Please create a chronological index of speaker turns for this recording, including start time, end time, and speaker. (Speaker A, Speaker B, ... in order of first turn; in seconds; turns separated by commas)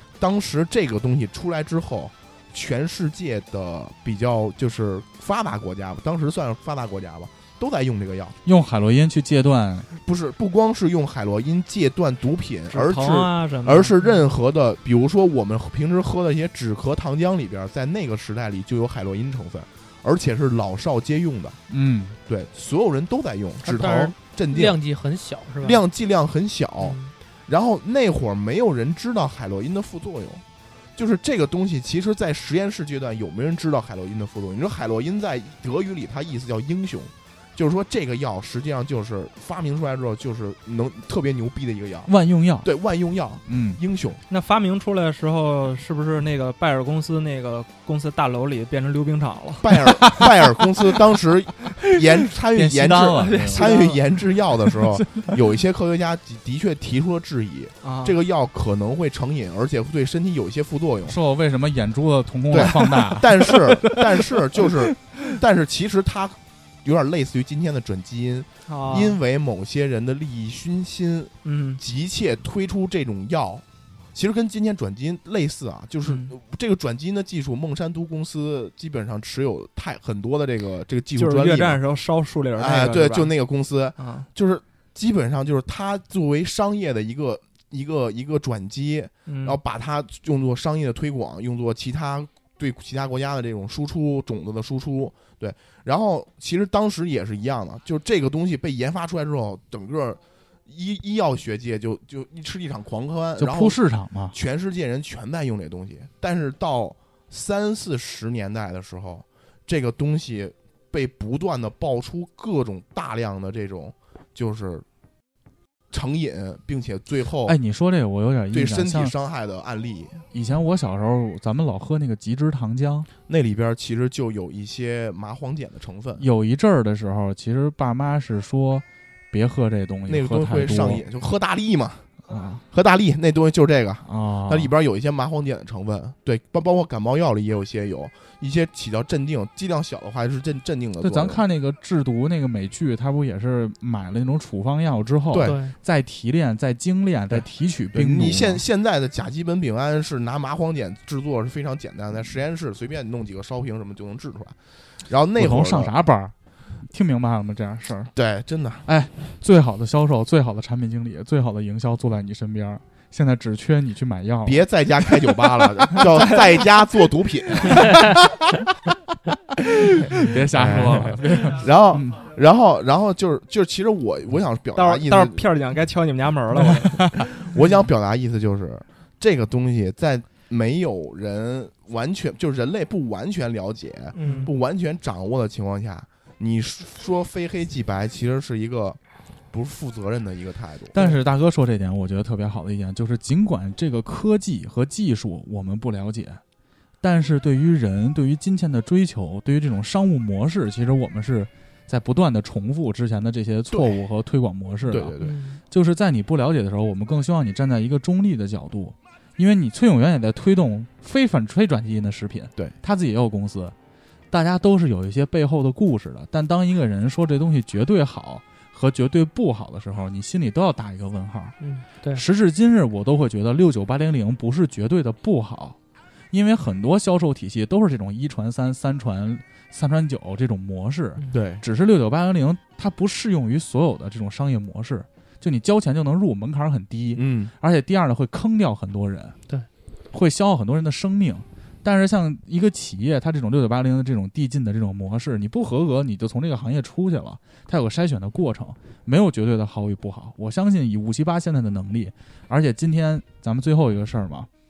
Speaker A: 0.2-8.4, Speaker B: 8.4-9.9, Speaker A: 9.9-21.6, Speaker C: 12.7-14.1, Speaker B: 21.7-22.2, Speaker A: 22.3-24.8, Speaker D: 23.7-25.8, Speaker A: 25.6-30.4, Speaker D: 26.8-27.1, Speaker A: 31.0-42.1, Speaker B: 42.1-42.7, Speaker A: 42.6-44.2, Speaker B: 43.5-43.8, Speaker C: 44.3-50.2, Speaker A: 49.6-61.2, Speaker B: 52.5-53.7, Speaker C: 53.2-54.2, Speaker C: 57.8-58.1, Speaker B: 61.1-64.0, Speaker A: 62.5-81.8, Speaker C: 68.7-69.2, Speaker C: 71.5-71.8, Speaker C: 76.0-76.3, Speaker C: 81.2-83.3, Speaker A: 82.6-103.8, Speaker C: 84.0-84.3, Speaker C: 89.3-89.6, Speaker B: 103.4-104.3, Speaker A: 104.3-114.9, Speaker A: 115.9-117.6, Speaker B: 117.5-119.1, Speaker A: 118.5-120.2, Speaker B: 120.3-123.1, Speaker A: 123.3-126.2, Speaker B: 126.2-131.0, Speaker A: 130.1-132.2, Speaker B: 132.3-132.6, Speaker A: 132.7-141.4, Speaker B: 134.1-134.7, Speaker B: 141.0-148.6, Speaker A: 145.3-145.6, Speaker D: 145.4-145.8, Speaker A: 147.3-154.6, Speaker A: 155.1-155.9, Speaker B: 155.4-156.3, Speaker B: 156.9-158.1, Speaker A: 158.2-158.9, Speaker B: 158.9-164.7, Speaker A: 164.4-168.1, Speaker B: 169.7-172.2, Speaker A: 170.5-175.4, Speaker C: 174.8-177.2, Speaker A: 177.2-189.0, Speaker C: 184.2-184.5, Speaker A: 189.5-191.0, Speaker B: 190.9-196.4, Speaker B: 197.0-205.2, Speaker A: 203.7-204.0, Speaker A: 204.9-205.4, Speaker D: 205.2-205.6, Speaker B: 205.7-213.7, Speaker B: 214.3-221.6, Speaker D: 221.6-222.2, Speaker B: 222.1-225.8, Speaker B: 226.3-239.4, Speaker A: 231.3-231.6, Speaker A: 237.2-237.5, Speaker B: 240.1-254.5